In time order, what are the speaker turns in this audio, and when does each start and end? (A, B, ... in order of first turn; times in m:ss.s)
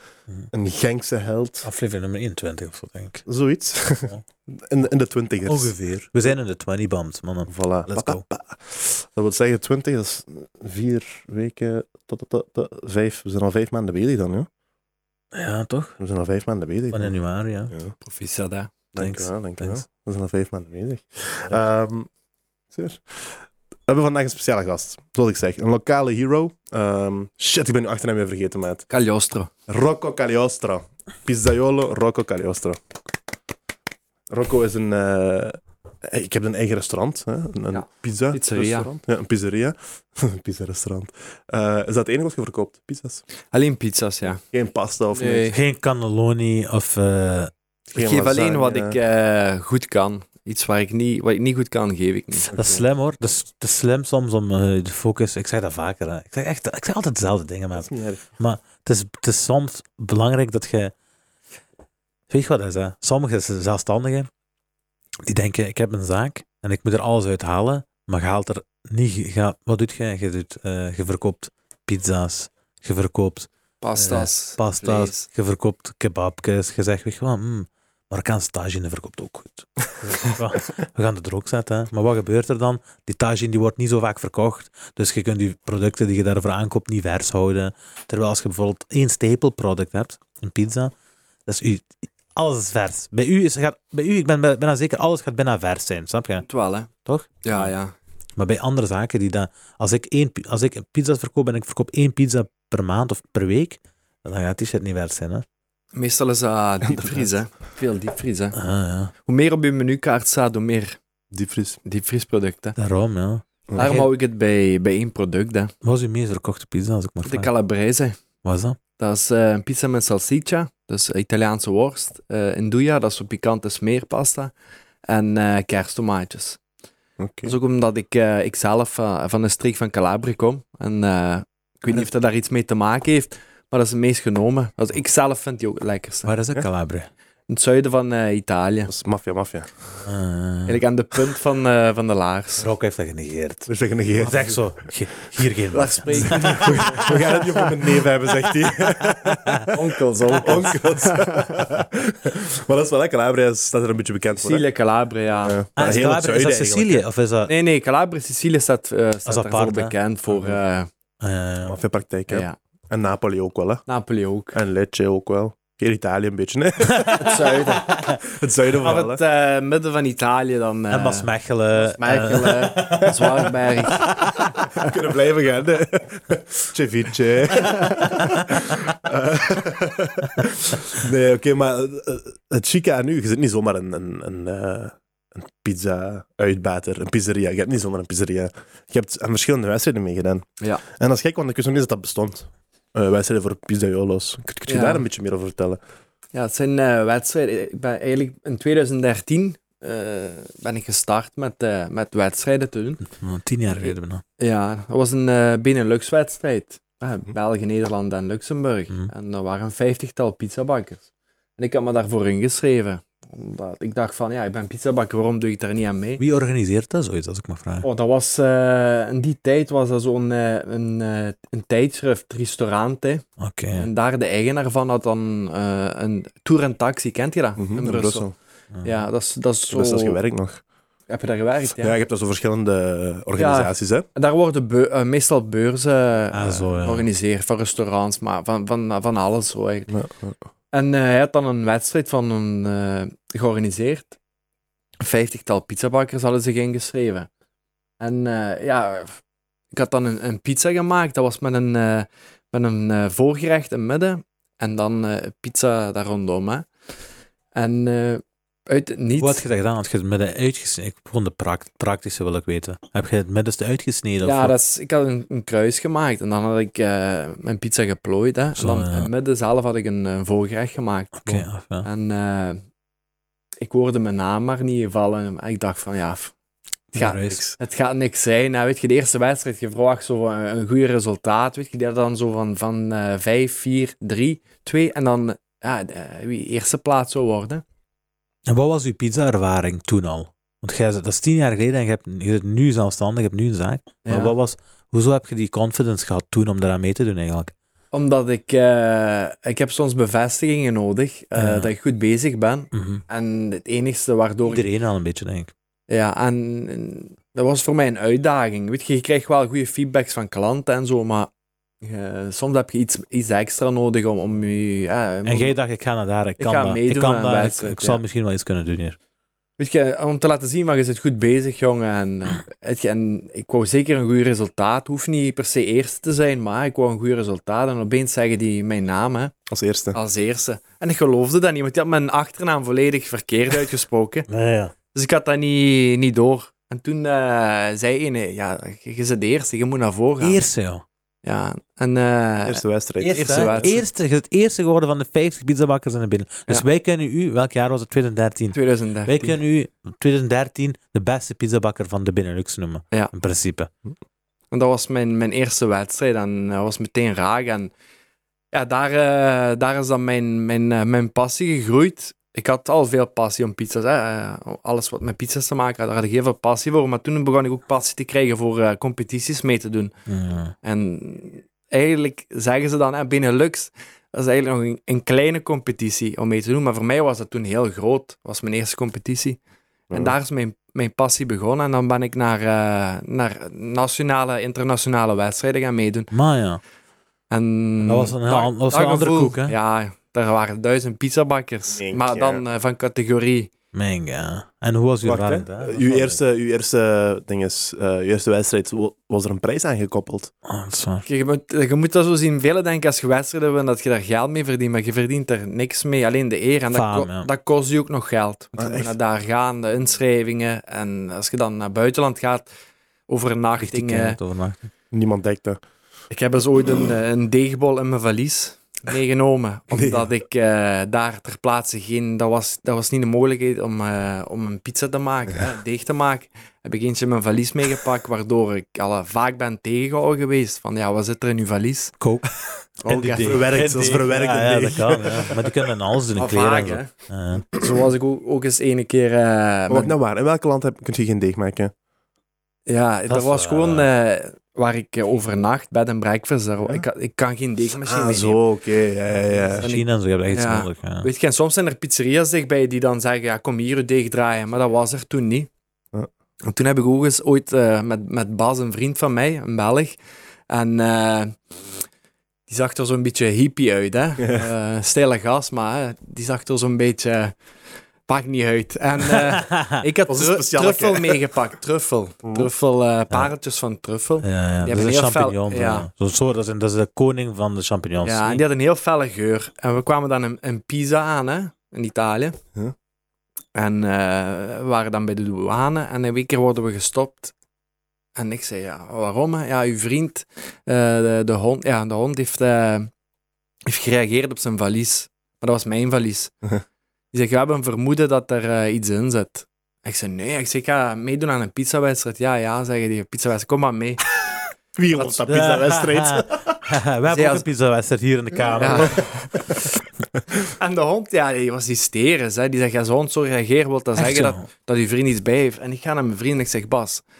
0:00.5-0:01.7 A
0:01.6-0:03.2 B
0:03.2-0:05.7 A
0:05.4-0:08.2 B
0:07.4-0:14.5 A
0:15.3-0:16.0 B
0:16.0-0:17.1 A
0:16.9-0:17.7 B
0:18.0-0:18.7 C
0:18.9-0:22.1 A
0:18.9-0:19.8 B
0:22.7-0:28.8 A
0:28.9-0:29.5 C
0:29.7-0:32.8 A
0:34.3-0:43.2 A
0:37.7-0:38.9 C
0:43.5-0:44.4 C
0:44.4-0:45.5 A
0:45.1-0:45.6 C
0:45.5-0:47.5 B
0:47.9-0:49.0 A
0:47.9-0:52.5 C
0:52.5-0:52.8 A
0:52.5-1:00.9 B
0:57.7-0:58.2 A
1:02.3-1:04.3 B
1:05.2-1:30.9 B
1:13.8-1:15.3 C
1:31.4-1:36.4 B
1:36.4-1:36.9 C
1:37.0-1:37.7 B
1:37.4-1:37.9 C
1:38.4-1:45.4 B
1:45.9-1:48.6 C
1:46.8-1:47.3 A
1:48.5-1:49.1 B
1:49.2-1:51.0 C
1:51.3-1:51.8 A
1:51.8-1:52.8 C
1:52.8-1:54.1 B
1:53.8-1:55.7 C
1:55.8-1:57.5 B
1:57.2-1:58.2 C
1:58.4-1:58.8 B
1:59.0-2:04.5 C
2:05.1-2:06.6 C
2:07.2-2:07.6 A
2:07.4-2:16.3 C
2:16.2-2:17.1 B
2:17.5-2:18.9 C
2:18.9-2:19.8 A
2:20.0-2:20.8 B
2:20.6-2:22.7 C
2:22.6-2:27.2 B
2:23.7-2:24.7 A
2:25.7-2:27.0 C
2:26.2-2:29.8 A
2:29.2-2:29.6 B
2:29.7-2:31.3 C
2:30.3-2:34.6 A
2:34.3-2:35.6 C
2:35.4-2:37.0 A
2:35.8-2:37.5 B
2:37.5-2:40.9 C
2:39.2-2:39.9 B
2:40.3-2:40.6 A
2:41.2-2:41.8 B
2:41.6-2:43.8 A
2:42.3-2:42.5 C
2:43.9-2:44.5 C
2:44.5-2:49.2 A
2:46.9-2:47.4 B
2:47.2-2:48.0 C
2:48.8-2:51.3 C
2:50.9-2:53.5 B
2:51.8-2:54.2 C
2:54.0-2:54.3 B
2:54.8-3:15.8 A
2:58.0-2:58.4 B
3:14.7-3:15.0 C
3:16.3-3:23.0 C
3:23.1-3:24.2 B
3:23.7-3:31.0 C
3:31.6-3:36.2 C
3:36.2-3:37.8 B
3:37.8-3:48.3 C
3:43.4-3:43.9 B
3:47.6-3:48.3 A
3:48.8-3:50.2 C
3:49.7-3:50.6 A
3:51.1-3:51.9 C
3:51.8-3:54.1 A
3:53.4-3:59.9 C
3:56.3-3:57.1 B
3:59.9-4:00.4 A
4:00.7-4:04.1 C
4:05.0-4:07.3 C
4:08.0-4:09.2 C
4:09.7-4:16.7 C
4:17.5-4:19.4 C
4:19.2-4:24.5 B
4:24.2-4:32.6 C
4:28.6-4:29.1 B
4:31.2-4:31.9 B
4:33.6-4:36.3 C
4:36.9-4:47.6 C
4:37.0-4:37.5 B
4:48.5-4:57.5 B
4:54.0-4:54.3 C
4:57.9-5:04.7 C
5:01.4-5:01.7 B
5:02.7-5:03.0 B
5:04.4-5:05.5 B
5:05.9-5:11.3 C
5:11.8-5:15.5 C
5:15.2-5:19.0 B
5:16.4-5:18.0 C
5:19.6-5:29.4 C
5:29.5-5:30.0 A
5:29.9-5:34.3 C
5:34.3-5:34.7 B
5:34.9-5:40.4 C
5:40.2-5:40.8 B
5:41.2-5:43.8 C
5:42.4-5:43.7 A
5:43.0-5:53.7 B
5:48.5-5:49.3 C
5:54.5-5:57.7 C
5:58.5-6:09.9 C
6:10.1-6:10.5 B
6:10.6-6:19.4 C
6:19.9-6:26.1 C
6:26.1-6:26.6 B
6:27.3-6:33.5 C
6:27.8-6:29.5 B
6:31.7-6:32.4 A
6:33.7-6:36.2 B
6:35.0-6:40.3 A
6:40.4-6:41.0 B
6:41.0-6:52.5 C
6:46.7-6:47.3 B
6:48.6-6:48.9 A
6:53.1-6:54.2 C
6:53.6-6:54.7 B
6:54.9-6:55.6 A
6:56.1-7:12.0 C
6:59.7-7:00.1 A
7:12.0-7:12.3 B
7:12.8-7:13.5 C
7:12.8-7:17.4 B
7:13.0-7:15.6 A
7:16.2-7:16.9 C
7:17.5-7:19.9 C
7:19.7-7:21.7 A
7:22.7-7:28.4 C
7:23.1-7:23.9 B
7:27.8-7:29.6 A
7:29.6-7:31.1 B
7:29.6-7:35.5 C
7:36.4-7:40.0 C
7:40.5-7:41.4 C
7:42.5-7:47.3 C
7:44.2-7:44.4 A
7:48.1-7:55.9 C
7:49.1-7:49.8 B
7:50.1-7:51.3 A
7:52.2-7:52.5 A
7:54.2-7:58.4 B
7:58.0-8:02.4 C
8:03.5-8:07.3 C
8:08.2-8:12.9 C
8:13.6-8:16.3 C
8:17.1-8:24.0 C
8:24.8-8:26.6 A
8:24.9-8:25.2 C
8:25.3-8:29.0 B
8:27.1-8:27.4 C
8:28.6-8:29.5 C
8:28.9-8:29.6 A
8:30.5-8:37.0 C
8:34.0-8:34.4 B